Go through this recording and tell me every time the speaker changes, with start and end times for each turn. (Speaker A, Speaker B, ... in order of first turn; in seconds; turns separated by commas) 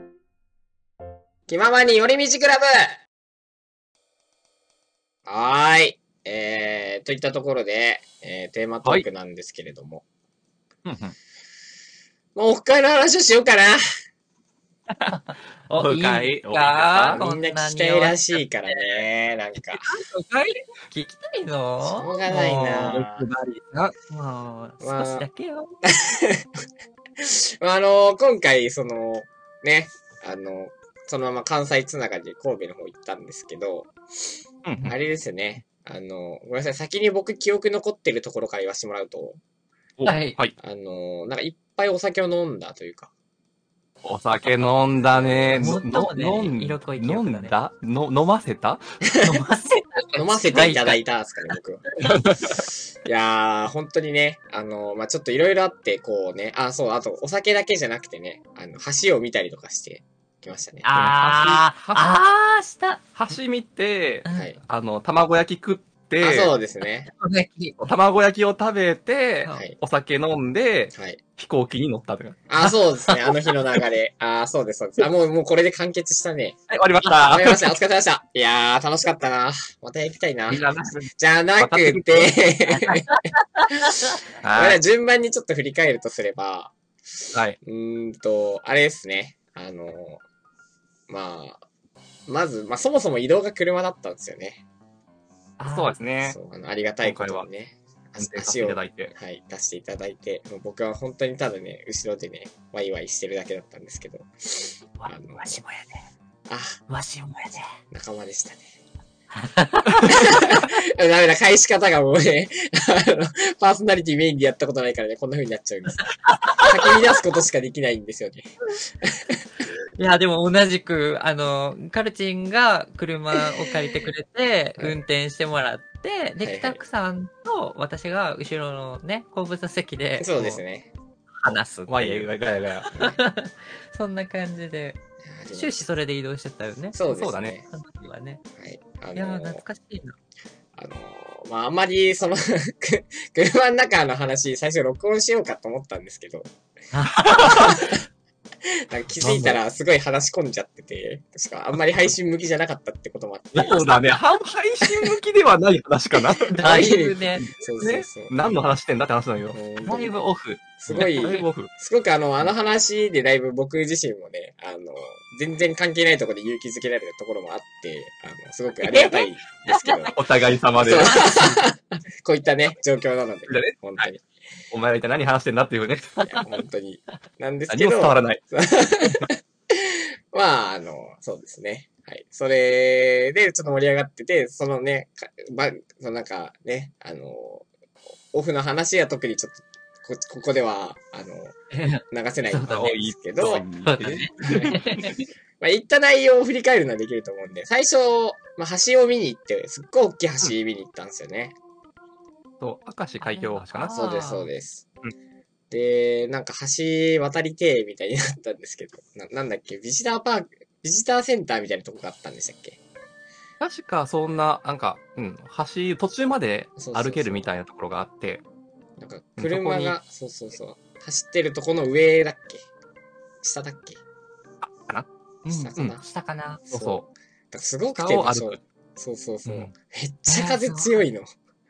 Speaker A: 1.5-3.0, Speaker A: 5.2-10.0, Speaker B: 10.8-11.1, Speaker A: 12.3-13.8, Speaker C: 15.0-19.0, Speaker B: 15.7-17.2, Speaker A: 17.1-19.8, Speaker C: 19.8-23.0, Speaker A: 21.8-23.3, Speaker B: 22.3-23.9, Speaker C: 24.1-25.7, Speaker A: 24.8-25.3, Speaker A: 25.9-26.5, Speaker A: 27.2-33.9, Speaker B: 34.6-34.9, Speaker A: 34.8-39.4, Speaker B: 40.0-40.5, Speaker C: 40.0-40.4, Speaker A: 40.6-43.1, Speaker B: 44.0-48.8, Speaker A: 44.6-45.8, Speaker C: 45.6-47.5, Speaker A: 49.1-49.4, Speaker C: 49.2-51.0, Speaker A: 50.1-51.8, Speaker B: 52.0-52.5, Speaker A: 52.5-60.9, Speaker C: 60.8-63.0, Speaker B: 60.9-62.1, Speaker B: 63.1-66.5, Speaker C: 64.2-64.5, Speaker A: 64.3-64.6, Speaker A: 66.2-67.1, Speaker C: 67.1-67.9, Speaker B: 67.8-72.5, Speaker A: 69.5-69.8, Speaker A: 70.9-71.2, Speaker A: 72.5-76.6, Speaker B: 76.7-77.7, Speaker A: 77.2-80.6, Speaker B: 80.5-82.4, Speaker A: 81.2-83.0, Speaker C: 82.9-84.1, Speaker B: 84.4-84.8, Speaker A: 84.5-90.2, Speaker A: 91.1-91.6, Speaker A: 92.3-94.6, Speaker C: 95.6-96.0, Speaker B: 95.6-96.4, Speaker A: 96.2-105.6, Speaker B: 97.0-97.5, Speaker B: 98.2-99.1, Speaker C: 104.9-106.0, Speaker A: 106.5-106.8, Speaker C: 106.9-107.7, Speaker A: 107.9-108.7, Speaker C: 109.3-110.2, Speaker A: 110.0-116.1, Speaker C: 116.2-116.7, Speaker A: 116.6-118.5, Speaker A: 119.0-119.4, Speaker C: 120.0-130.6, Speaker A: 123.5-124.0, Speaker A: 126.4-126.8, Speaker A: 130.2-130.9, Speaker C: 131.4-132.3, Speaker B: 131.9-132.9, Speaker C: 132.8-135.0, Speaker A: 132.9-133.2, Speaker A: 135.2-135.9, Speaker C: 135.5-137.0, Speaker A: 136.9-137.7, Speaker B: 137.1-137.6, Speaker C: 137.7-138.4, Speaker A: 138.6-139.6, Speaker C: 139.1-140.1, Speaker A: 140.8-146.5, Speaker C: 146.9-147.7, Speaker B: 147.3-147.7, Speaker A: 147.3-148.0, Speaker A: 148.9-153.8, Speaker B: 149.2-149.6, Speaker B: 153.5-159.6, Speaker A: 154.9-155.2, Speaker C: 156.5-157.4, Speaker A: 156.6-158.3, Speaker A: 159.5-160.2, Speaker C: 159.8-160.6, Speaker A: 160.8-170.2, Speaker B: 160.9-161.7, Speaker C: 168.9-170.1, Speaker B: 170.1-171.6, Speaker A: 170.8-174.3, Speaker B: 173.5-174.1, Speaker B: 174.7-176.2, Speaker C: 176.2-176.4, Speaker A: 176.2-187.7, Speaker B: 177.7-178.4, Speaker A: 188.3-191.6, Speaker C: 191.7-193.1, Speaker A: 192.1-193.6, Speaker B: 193.1-195.1, Speaker C: 193.8-195.1, Speaker A: 195.6-201.6, Speaker B: 202.6-203.9, Speaker C: 203.2-204.5, Speaker A: 203.9-204.8, Speaker A: 205.7-212.8, Speaker B: 213.6-218.4, Speaker A: 216.8-217.5, Speaker A: 219.0-222.6, Speaker B: 219.4-220.0, Speaker A: 223.4-224.0, Speaker B: 224.6-225.1, Speaker C: 225.4-226.6, Speaker A: 225.5-226.0, Speaker A: 226.7-231.3, Speaker B: 226.7-227.1, Speaker B: 227.9-228.6, Speaker B: 229.4-229.7, Speaker C: 230.3-231.1